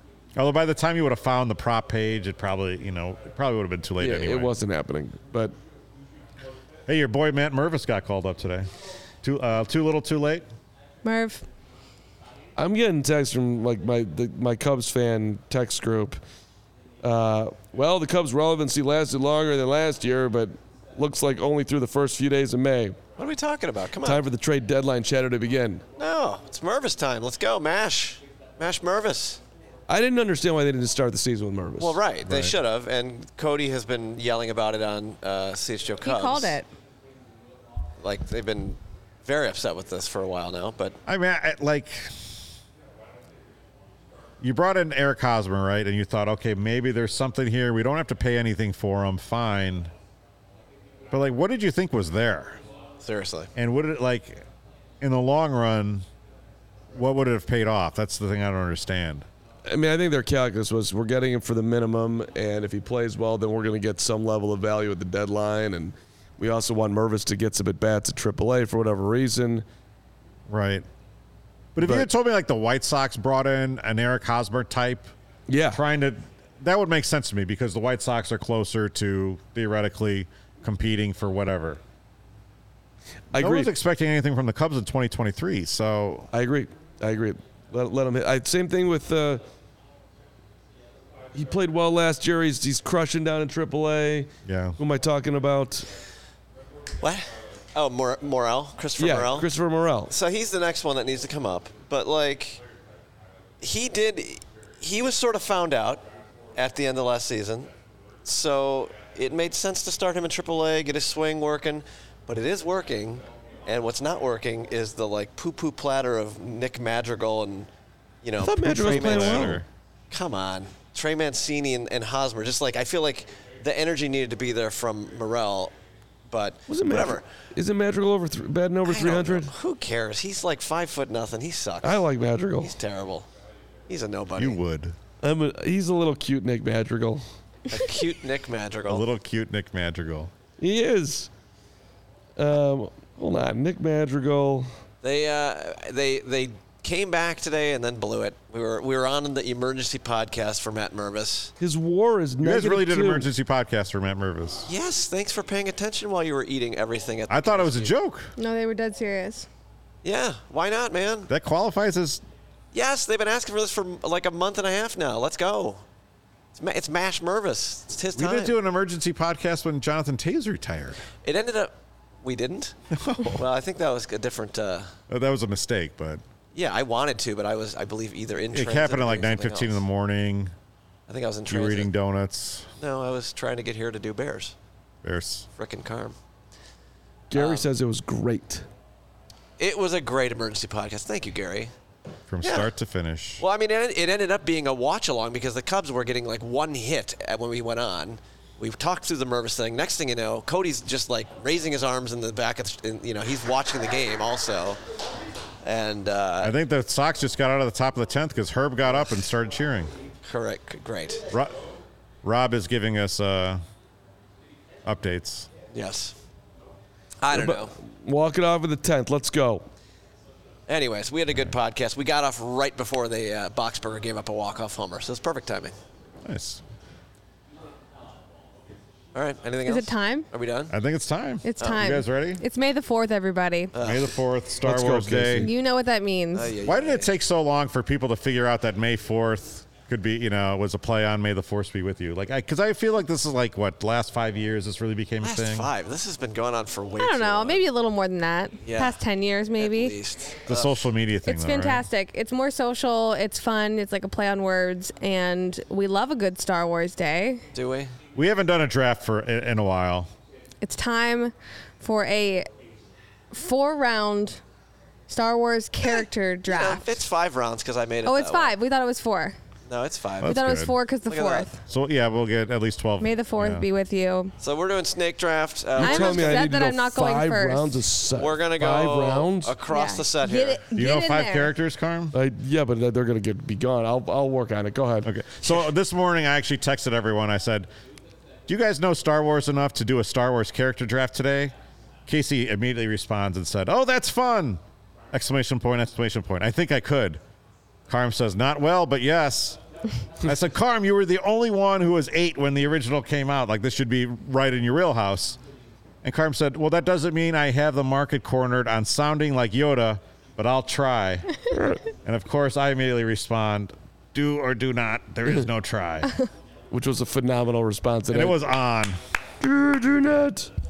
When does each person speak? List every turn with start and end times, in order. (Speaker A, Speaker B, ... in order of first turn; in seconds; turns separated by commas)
Speaker A: 0.3-4.5, Speaker B: 4.0-5.5, Speaker A: 6.9-8.7, Speaker A: 9.2-10.4, Speaker C: 11.0-11.4, Speaker B: 12.6-16.2, Speaker B: 17.0-23.0, Speaker D: 23.2-24.2, Speaker B: 24.0-25.8, Speaker D: 26.0-29.4, Speaker B: 29.9-32.0, Speaker D: 31.8-36.6, Speaker A: 32.2-32.5, Speaker C: 36.0-36.7, Speaker D: 38.0-41.0, Speaker A: 41.0-42.4, Speaker A: 44.4-49.9, Speaker A: 51.1-52.6, Speaker D: 53.0-53.5, Speaker A: 53.5-54.4, Speaker A: 55.0-56.0, Speaker A: 56.9-59.2, Speaker B: 59.7-69.6, Speaker A: 70.5-70.8, Speaker A: 71.8-75.1, Speaker B: 71.8-72.1, Speaker B: 75.5-75.8, Speaker A: 75.7-81.8, Speaker B: 83.3-83.7, Speaker A: 83.3-86.3, Speaker B: 86.3-89.4, Speaker B: 91.3-95.9, Speaker A: 94.5-94.8, Speaker D: 97.0-99.5, Speaker B: 99.0-100.1, Speaker D: 100.1-102.6, Speaker D: 103.6-107.7, Speaker D: 108.2-117.7, Speaker D: 118.2-119.6, Speaker B: 118.4-119.6, Speaker A: 118.6-119.7, Speaker D: 120.1-125.7, Speaker D: 126.3-127.2, Speaker B: 126.7-129.5, Speaker D: 128.8-132.0, Speaker B: 131.8-132.7, Speaker D: 132.6-133.3, Speaker D: 133.9-134.6, Speaker A: 134.4-134.9, Speaker B: 135.2-137.2, Speaker D: 137.7-139.1, Speaker A: 138.9-140.3, Speaker B: 140.6-141.3, Speaker B: 142.4-144.7, Speaker D: 145.0-151.5, Speaker B: 151.6-153.3, Speaker A: 152.4-154.7, Speaker D: 154.7-157.9, Speaker A: 157.3-158.3, Speaker C: 158.4-159.5, Speaker D: 160.0-161.3, Speaker A: 161.3-162.2, Speaker D: 162.7-165.8, Speaker D: 166.5-168.5, Speaker A: 168.1-171.0, Speaker D: 171.2-172.8, Speaker A: 172.9-173.4, Speaker D: 173.3-174.9, Speaker A: 175.1-176.2, Speaker D: 176.5-179.8, Speaker A: 178.5-180.5, Speaker D: 181.1-181.9, Speaker A: 181.5-182.7, Speaker D: 182.8-184.5, Speaker A: 185.0-185.5, Speaker D: 185.6-186.2, Speaker B: 187.3-188.6, Speaker D: 187.3-187.7, Speaker D: 189.6-191.7, Speaker A: 192.3-193.4, Speaker D: 192.4-192.7, Speaker D: 193.4-204.8, Speaker D: 205.6-206.5, Speaker A: 206.4-209.9, Speaker D: 210.2-211.3, Speaker A: 212.2-213.6, Speaker A: 214.8-215.5, Speaker D: 215.7-216.2, Speaker D: 217.2-217.7, Speaker B: 217.3-219.6, Speaker D: 220.7-225.7, Speaker A: 226.2-226.6, Speaker D: 229.1-230.7, Speaker C: 229.7-230.3, Speaker A: 230.7-232.4, Speaker C: 231.4-233.7, Speaker D: 233.7-234.1, Speaker A: 233.8-235.5, Speaker B: 234.6-235.5, Speaker C: 235.4-236.5, Speaker D: 236.3-237.1, Speaker A: 236.6-245.7, Speaker D: 245.2-247.6, Speaker C: 247.0-250.0, Speaker D: 248.6-249.0, Speaker D: 249.6-250.8, Speaker A: 250.5-251.8, Speaker C: 251.2-257.4, Speaker D: 257.5-257.9, Speaker A: 258.1-260.1, Speaker C: 260.6-262.5, Speaker C: 263.3-264.4, Speaker C: 265.1-267.0, Speaker D: 266.5-268.5, Speaker C: 268.0-269.4, Speaker D: 269.7-270.4, Speaker A: 270.2-270.7, Speaker C: 270.2-271.6, Speaker D: 271.1-271.5, Speaker A: 271.7-273.6, Speaker C: 273.0-274.3, Speaker D: 274.4-276.5, Speaker B: 275.8-279.5, Speaker C: 275.8-277.8, Speaker D: 278.2-280.6, Speaker C: 279.7-281.5, Speaker A: 280.7-282.1, Speaker B: 282.1-285.1, Speaker A: 285.0-287.7, Speaker A: 288.5-291.5, Speaker A: 292.1-294.6, Speaker A: 295.1-297.2, Speaker A: 297.9-299.6, Speaker A: 300.2-305.4, Speaker A: 306.0-311.4, Speaker A: 312.0-316.1, Speaker B: 316.7-318.5, Speaker A: 318.1-319.0, Speaker B: 319.4-320.5